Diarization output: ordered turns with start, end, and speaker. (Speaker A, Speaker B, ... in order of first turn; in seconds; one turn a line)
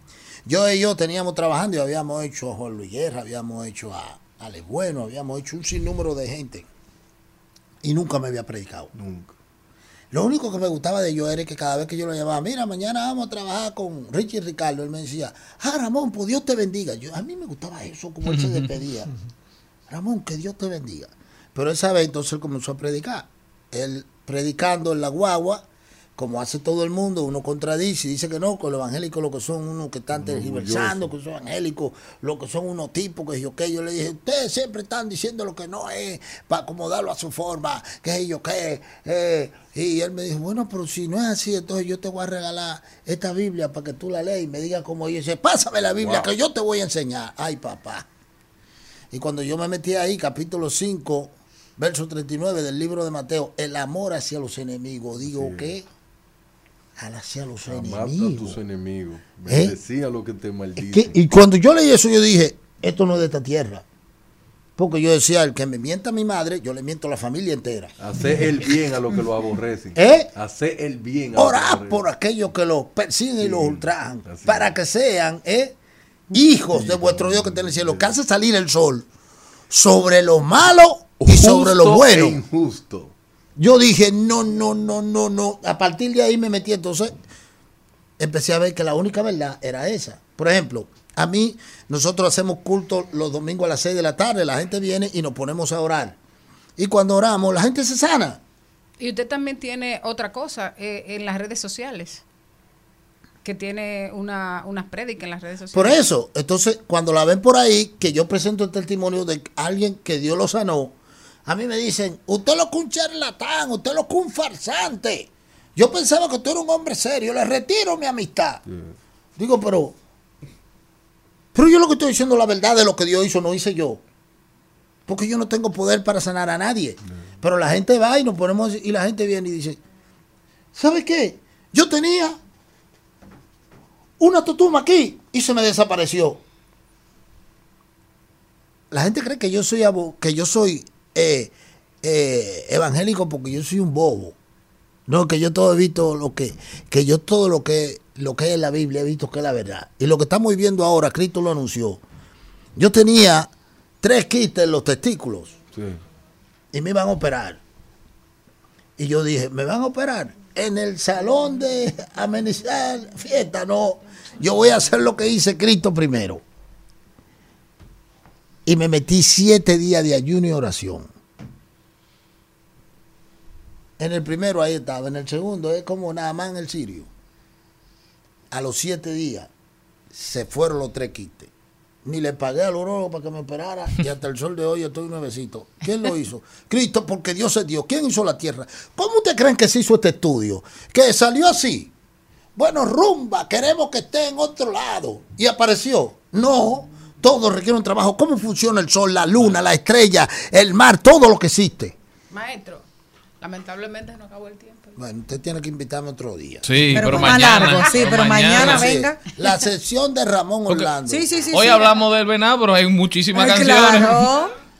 Speaker A: 0.5-6.7
Speaker A: 7.8-8.9
Speaker B: 8.9-9.3
Speaker A: 10.1-19.1
Speaker C: 18.2-18.7
Speaker A: 19.9-48.0
Speaker B: 30.1-31.1
Speaker B: 46.0-46.3
Speaker A: 49.1-55.8
Speaker B: 55.2-55.7
Speaker A: 57.0-58.6
Speaker B: 57.6-61.1
Speaker A: 59.5-59.7
Speaker A: 60.8-63.8
Speaker A: 64.8-67.9
Speaker B: 68.0-72.0
Speaker A: 70.0-70.3
Speaker A: 71.3-75.8
Speaker B: 73.4-74.8
Speaker A: 76.3-79.1
Speaker B: 76.7-78.1
Speaker A: 79.7-82.4
Speaker B: 81.2-83.1
Speaker A: 83.6-87.1
Speaker A: 88.2-96.2
Speaker A: 96.8-98.4
Speaker D: 99.0-102.2
Speaker D: 103.4-106.0
Speaker A: 105.7-110.9
Speaker A: 111.5-118.6
Speaker B: 118.7-118.9
Speaker A: 119.4-120.0
Speaker A: 121.5-124.0
Speaker A: 125.1-129.8
Speaker A: 130.7-132.4
Speaker A: 134.2-136.4
Speaker A: 138.9-144.3
Speaker A: 145.1-152.0
Speaker A: 152.8-153.5
Speaker A: 154.0-155.5
Speaker B: 155.7-156.0
Speaker A: 156.7-157.6
Speaker A: 159.0-166.4
Speaker A: 168.7-171.1
Speaker A: 174.0-177.1
Speaker A: 178.5-179.5
Speaker A: 180.1-181.5
Speaker A: 182.0-191.9
Speaker A: 192.6-201.9
Speaker D: 202.3-202.8
Speaker D: 203.4-204.9
Speaker A: 204.9-211.4
Speaker C: 206.6-208.9
Speaker E: 206.9-209.2
Speaker E: 211.1-211.9
Speaker C: 211.5-214.3
Speaker E: 213.3-214.5